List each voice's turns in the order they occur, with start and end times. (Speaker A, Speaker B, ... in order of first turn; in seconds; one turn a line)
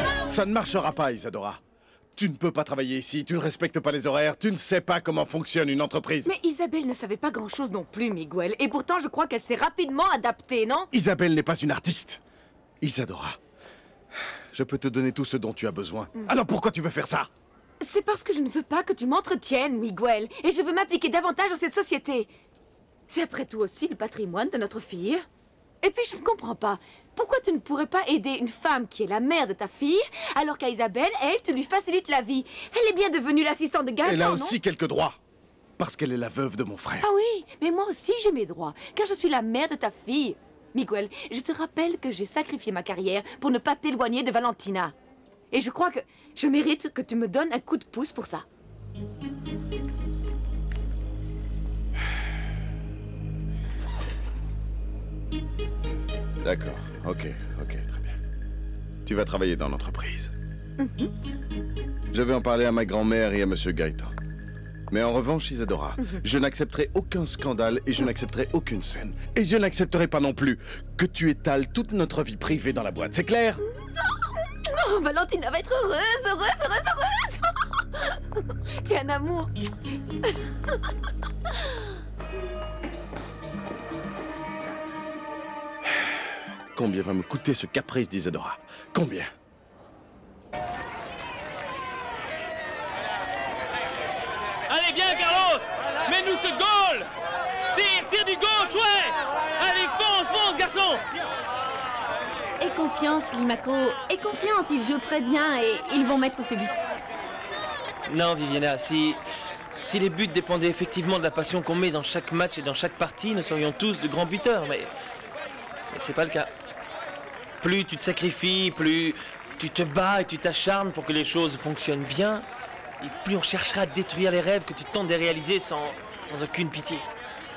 Speaker A: 0.3-1.6
Speaker A: 2.2-6.3
Speaker B: 6.3-10.9
Speaker A: 10.9-12.2
Speaker A: 12.8-13.4
Speaker A: 14.5-17.3
Speaker B: 17.8-22.3
Speaker B: 23.1-25.2
Speaker B: 25.8-34.6
Speaker A: 34.0-35.2
Speaker A: 35.8-37.1
Speaker B: 37.0-44.9
Speaker B: 45.5-48.5
Speaker A: 56.4-58.2
Speaker A: 59.0-60.3
Speaker A: 62.1-64.1
Speaker A: 64.9-73.6
Speaker B: 74.7-77.4
Speaker B: 78.8-79.7
Speaker A: 86.7-89.3
Speaker C: 94.7-97.1
Speaker C: 97.7-101.0
Speaker D: 102.6-106.8
Speaker C: 108.1-109.2
Speaker C: 109.8-114.9
Speaker C: 115.9-116.5
Speaker C: 117.6-122.5
Speaker C: 123.0-127.0